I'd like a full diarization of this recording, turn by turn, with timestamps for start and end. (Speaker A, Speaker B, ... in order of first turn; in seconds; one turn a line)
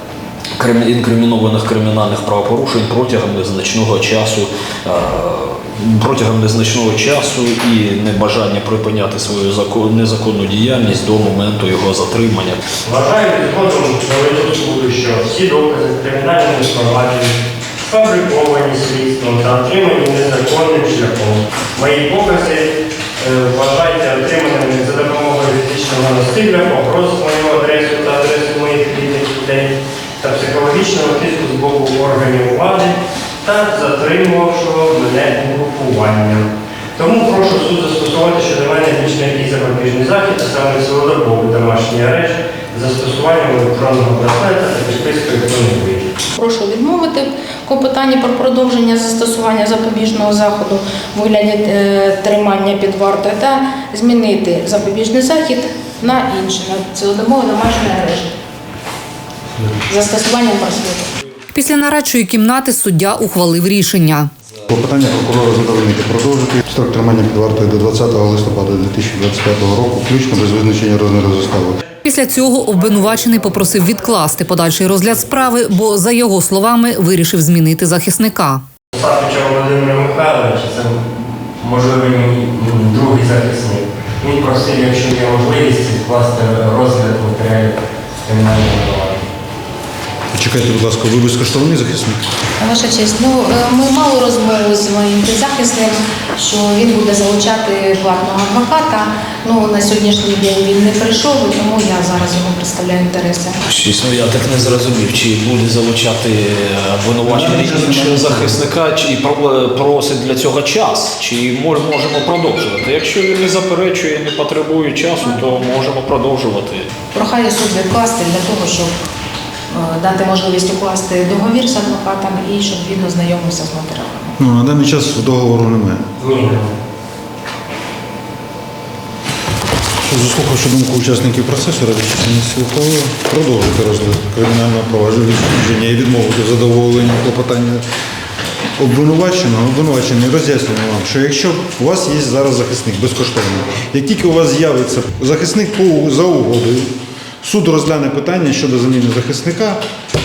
Speaker A: 0.6-12.6
Speaker B: 12.8-46.1
Speaker C: 46.3-58.3
Speaker C: 59.9-61.1
Speaker D: 61.5-64.3
Speaker E: 64.7-71.8
Speaker D: 72.0-78.6
Speaker B: 73.2-73.7
Speaker B: 78.9-81.0
Speaker B: 81.6-89.3
Speaker E: 90.3-92.2
Speaker C: 92.6-103.6
Speaker A: 103.7-116.9
Speaker E: 107.2-108.6
Speaker C: 117.1-119.0
Speaker C: 119.7-124.3
Speaker E: 124.4-126.0
Speaker B: 126.2-126.7
Speaker E: 130.0-137.8
Speaker E: 138.8-149.8